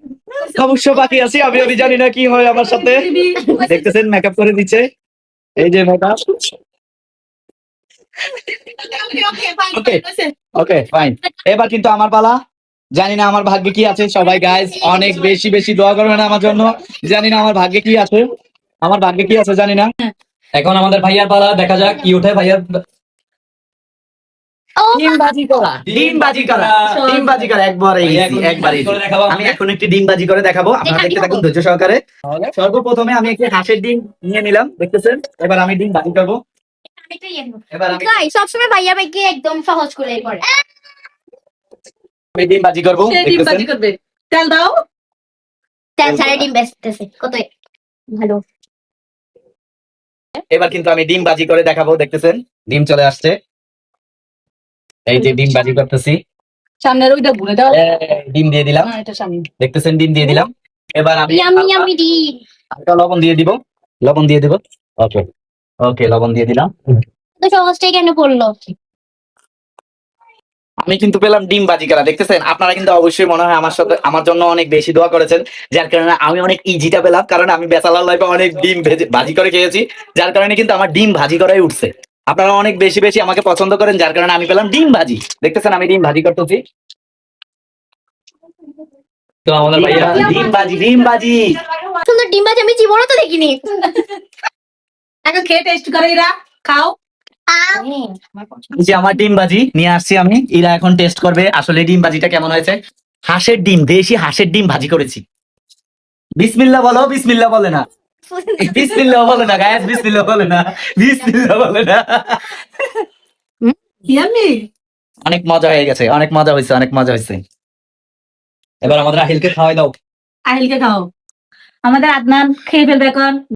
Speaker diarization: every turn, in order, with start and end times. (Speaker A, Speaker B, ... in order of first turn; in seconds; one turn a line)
Speaker A: 0.4-2.0
Speaker B: 0.6-4.9
Speaker A: 2.5-3.9
Speaker B: 5.6-6.5
Speaker A: 8.6-10.3
Speaker B: 9.7-10.0
Speaker B: 10.5-12.4
Speaker B: 12.9-18.2
Speaker B: 18.8-19.9
Speaker C: 20.6-22.8
Speaker D: 24.8-25.3
Speaker B: 24.9-32.0
Speaker C: 25.8-27.2
Speaker A: 26.9-27.5
Speaker C: 28.0-29.6
Speaker D: 30.8-31.4
Speaker C: 32.3-32.5
Speaker B: 32.5-36.4
Speaker D: 37.0-40.5
Speaker B: 37.7-38.1
Speaker B: 42.4-43.7
Speaker A: 43.0-44.8
Speaker D: 46.0-47.5
Speaker B: 46.0-46.5
Speaker D: 48.1-48.4
Speaker B: 50.5-53.4
Speaker B: 55.1-56.2
Speaker A: 56.8-57.8
Speaker B: 57.7-58.9
Speaker A: 58.8-59.5
Speaker B: 59.6-61.9
Speaker D: 61.3-62.4
Speaker B: 62.7-65.2
Speaker B: 65.8-66.7
Speaker D: 67.4-68.5
Speaker B: 70.8-86.6
Speaker C: 89.5-90.3
Speaker B: 89.7-91.5
Speaker A: 89.7-90.6
Speaker D: 92.0-93.8
Speaker A: 93.8-94.2
Speaker A: 95.3-97.0
Speaker D: 97.5-98.1
Speaker B: 98.8-105.2
Speaker B: 106.4-107.8
Speaker D: 108.3-109.2
Speaker B: 108.6-112.6
Speaker A: 114.1-114.7
Speaker B: 115.2-117.4
Speaker B: 118.8-119.9
Speaker A: 120.5-121.1
Speaker A: 121.8-123.4